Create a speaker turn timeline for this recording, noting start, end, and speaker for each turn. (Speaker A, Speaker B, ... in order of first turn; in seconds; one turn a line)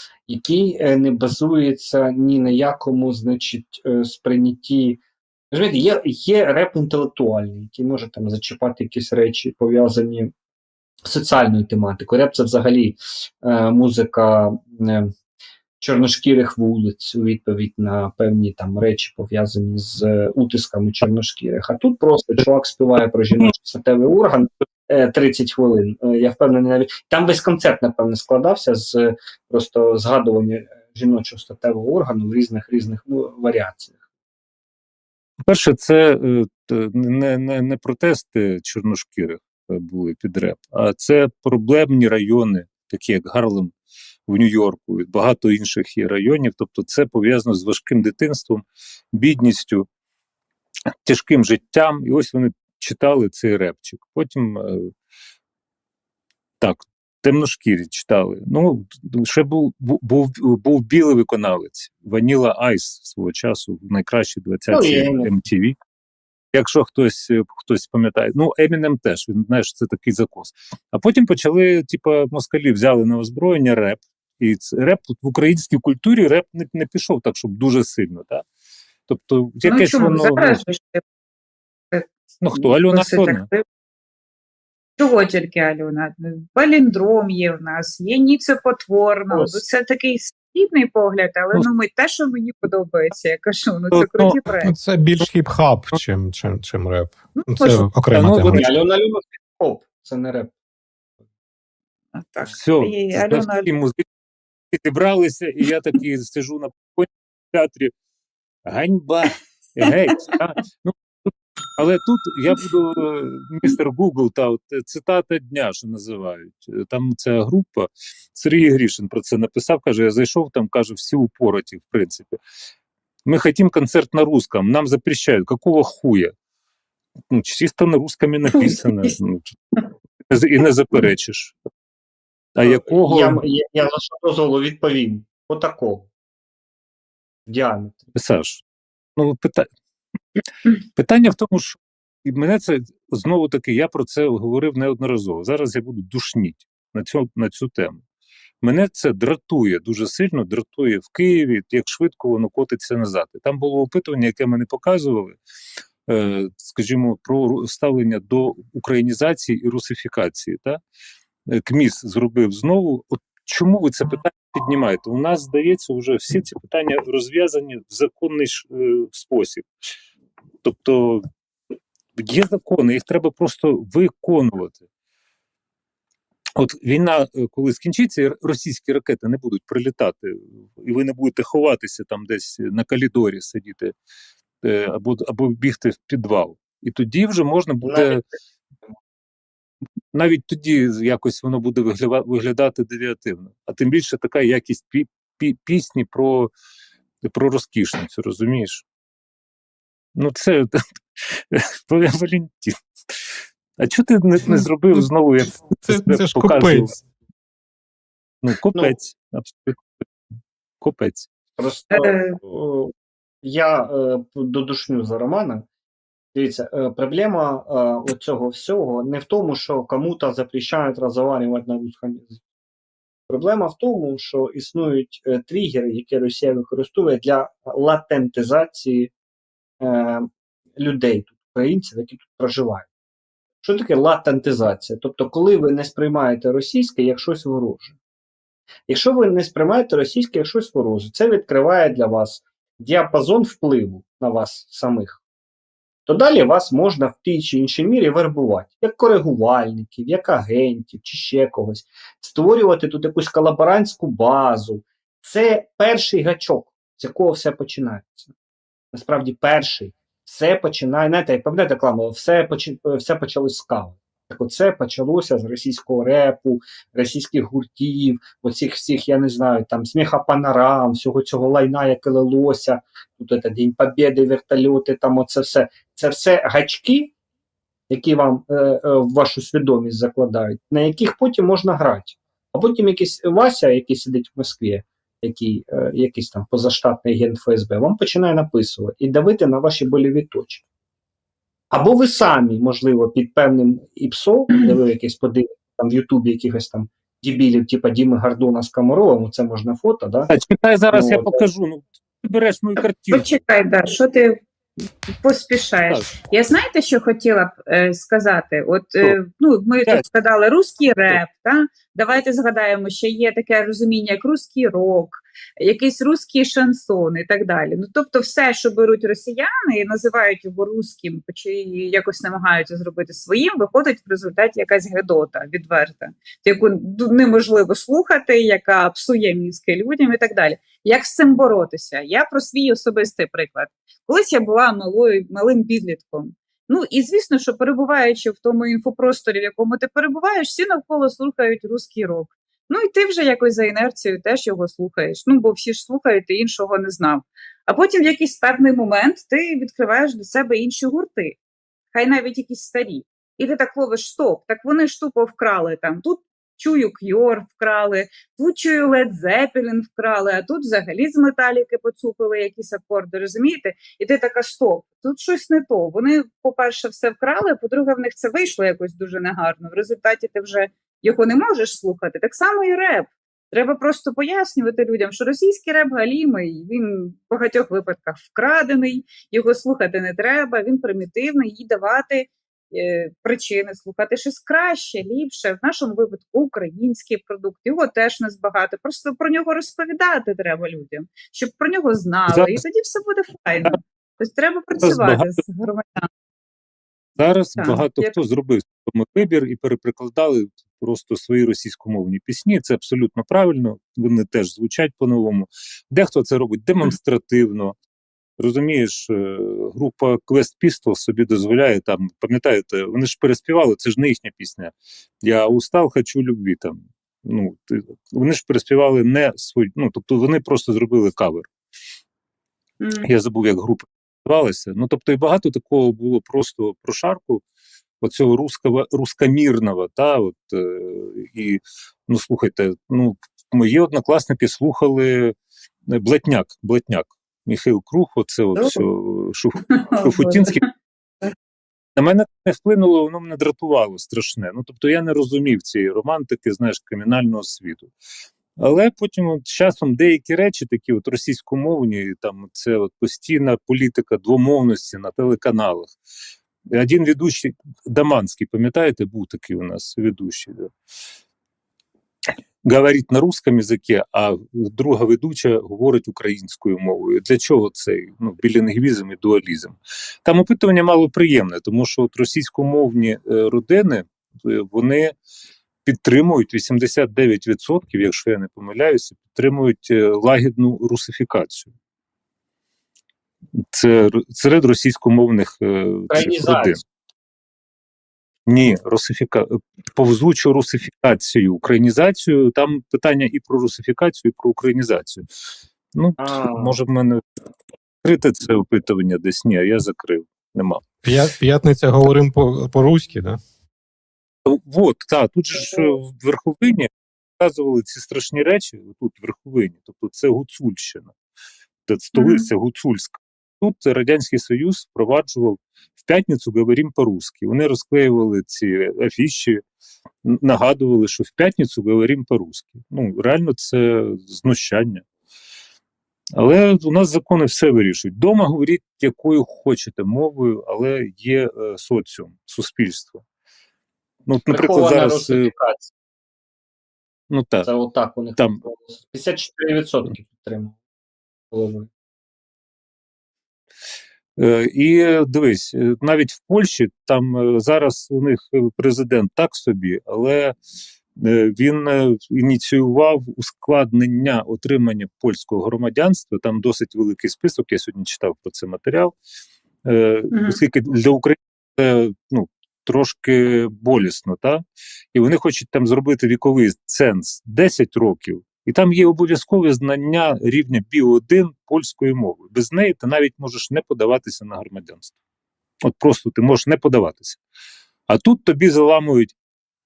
Speaker A: 0.3-5.0
Speaker A: 5.5-10.3
Speaker A: 11.0-15.1
Speaker A: 15.8-33.9
Speaker B: 35.5-43.7
Speaker B: 44.3-49.9
Speaker B: 51.0-54.9
Speaker B: 56.6-65.8
Speaker A: 64.7-65.3
Speaker B: 66.5-78.4
Speaker B: 79.1-80.6
Speaker C: 79.6-81.0
Speaker C: 81.9-83.6
Speaker B: 82.4-83.5
Speaker C: 85.0-94.7
Speaker A: 89.3-89.6
Speaker B: 93.9-94.4
Speaker D: 94.6-98.7
Speaker C: 97.3-97.8
Speaker B: 98.1-98.7
Speaker A: 98.5-100.5
Speaker C: 102.1-103.7
Speaker B: 102.5-104.0
Speaker B: 104.7-107.9
Speaker B: 108.7-122.4
Speaker C: 109.8-110.1
Speaker B: 123.2-126.3
Speaker B: 127.3-129.5
Speaker C: 128.5-129.1
Speaker B: 130.3-131.5
Speaker B: 132.5-133.4
Speaker A: 132.6-136.1
Speaker A: 137.5-138.1
Speaker B: 138.1-138.6
Speaker B: 139.2-139.7
Speaker B: 140.9-148.0
Speaker B: 148.6-155.4
Speaker B: 156.1-160.8
Speaker B: 161.5-169.7
Speaker B: 170.6-171.2
Speaker B: 172.2-174.8
Speaker B: 176.6-183.9
Speaker B: 184.6-188.2
Speaker A: 187.8-188.3
Speaker B: 190.1-196.5
Speaker B: 197.2-198.8
Speaker B: 200.2-203.1
Speaker B: 203.8-206.9
Speaker D: 205.7-207.0
Speaker B: 208.4-209.8
Speaker B: 210.8-211.3
Speaker A: 211.6-212.9
Speaker C: 211.9-212.4
Speaker A: 213.4-215.7
Speaker A: 216.3-222.4
Speaker A: 223.3-229.1
Speaker A: 229.8-232.9
Speaker A: 233.6-237.9
Speaker A: 238.9-245.2
Speaker A: 246.1-258.3
Speaker A: 258.9-277.1
Speaker A: 277.9-290.6
Speaker A: 291.7-300.3
Speaker B: 300.3-303.2
Speaker A: 300.9-301.4
Speaker C: 302.8-304.4
Speaker C: 305.2-351.4
Speaker B: 305.9-306.1
Speaker C: 351.9-396.1
Speaker B: 392.3-392.6
Speaker B: 394.8-395.4
Speaker B: 397.2-407.7
Speaker C: 397.6-398.2
Speaker B: 408.4-421.5
Speaker C: 422.8-423.1
Speaker B: 423.0-427.4
Speaker B: 428.0-435.3
Speaker B: 435.9-440.6
Speaker C: 438.6-438.8
Speaker C: 439.6-440.7
Speaker B: 441.9-447.9
Speaker B: 448.6-455.9
Speaker B: 456.7-460.7
Speaker B: 462.6-475.1
Speaker B: 475.8-481.7
Speaker B: 483.7-486.8
Speaker A: 486.1-486.8
Speaker B: 488.5-495.2
Speaker B: 495.9-497.2
Speaker A: 496.2-496.8
Speaker B: 498.0-500.8
Speaker D: 501.0-503.4
Speaker B: 504.4-511.1
Speaker B: 511.9-519.6
Speaker C: 512.1-512.5
Speaker B: 520.2-525.0
Speaker B: 526.4-533.2
Speaker B: 534.2-535.5
Speaker A: 534.5-535.9
Speaker B: 537.3-537.7
Speaker A: 537.6-540.8
Speaker A: 541.5-541.9
Speaker B: 544.4-550.5
Speaker B: 551.2-559.1
Speaker B: 559.9-564.6
Speaker C: 560.3-560.6
Speaker B: 565.1-575.1
Speaker B: 575.9-577.4
Speaker B: 578.1-579.3